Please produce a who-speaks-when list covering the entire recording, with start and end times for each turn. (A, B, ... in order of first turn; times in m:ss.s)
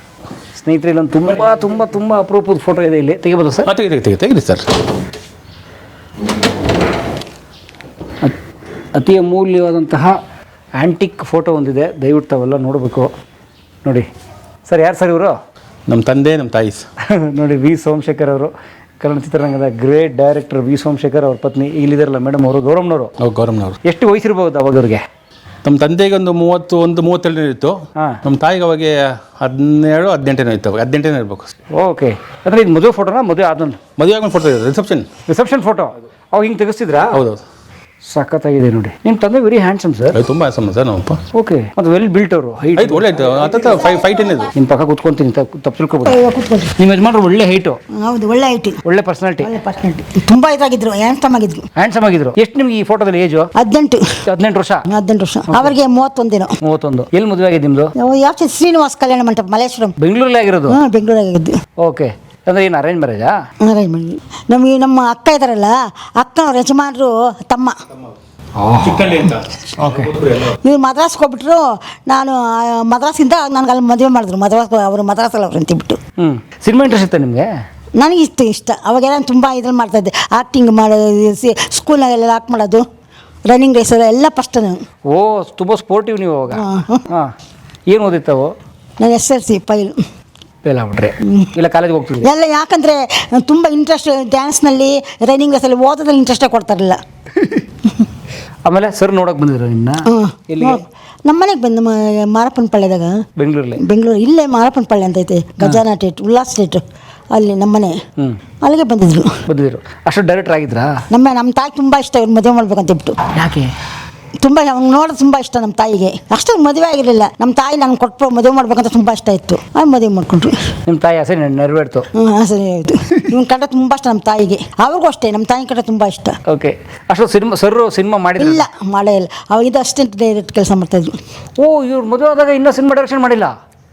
0:00.6-0:03.7 A
0:03.6-0:04.6 B
0:08.9-0:10.2 A
0:10.8-0:13.1 A
0:14.7-0:15.4 A
0:15.9-0:16.8 B
0:17.0-0:23.1 A
0:23.2-0:23.8 B
0:23.8-0:25.0 A
0:25.6-0:31.6 B
0:31.7-0:33.8 A
0:34.0-0:35.1 B
0:35.3-0:37.2 A
0:37.1-0:37.4 B
0:38.1-0:40.2 A
0:40.1-0:41.2 B
0:41.3-0:43.1 A
0:42.8-0:44.5 B
0:44.5-0:46.2 A
0:46.0-0:46.7 C
0:46.8-0:47.8 A
0:47.9-0:48.8 C
0:48.8-0:49.5 A
0:49.4-0:51.6 C
0:51.8-0:53.5 A
0:53.6-0:54.2 C
0:54.3-0:54.8 A
0:54.9-0:56.5 C
0:56.6-0:57.9 A
0:58.0-0:59.9 C
1:00.0-1:00.8 A
1:00.7-1:01.6 C
1:01.8-1:03.3 A
1:03.6-1:07.8 C
1:08.6-1:10.1 A
1:08.8-1:10.6 B
1:10.6-1:16.0 C
1:16.2-1:17.5 A
1:18.0-1:22.8 C
1:23.4-1:24.8 C
1:25.1-1:27.3 A
1:26.5-1:27.0 C
1:27.9-1:28.5 A
1:29.0-1:30.0 C
1:30.6-1:32.3 A
1:32.2-1:37.0 C
1:38.6-1:40.8 A
1:40.1-1:43.2 C
1:43.4-1:43.8 A
1:43.8-1:48.0 C
1:48.6-1:49.4 C
1:49.5-1:51.0 A
1:51.1-1:53.2 C
1:53.3-1:53.7 A
1:54.4-2:00.7 C
2:00.9-2:02.1 A
2:02.2-2:06.4 C
2:06.5-2:08.6 A
2:08.4-2:11.2 C
2:11.6-2:13.5 A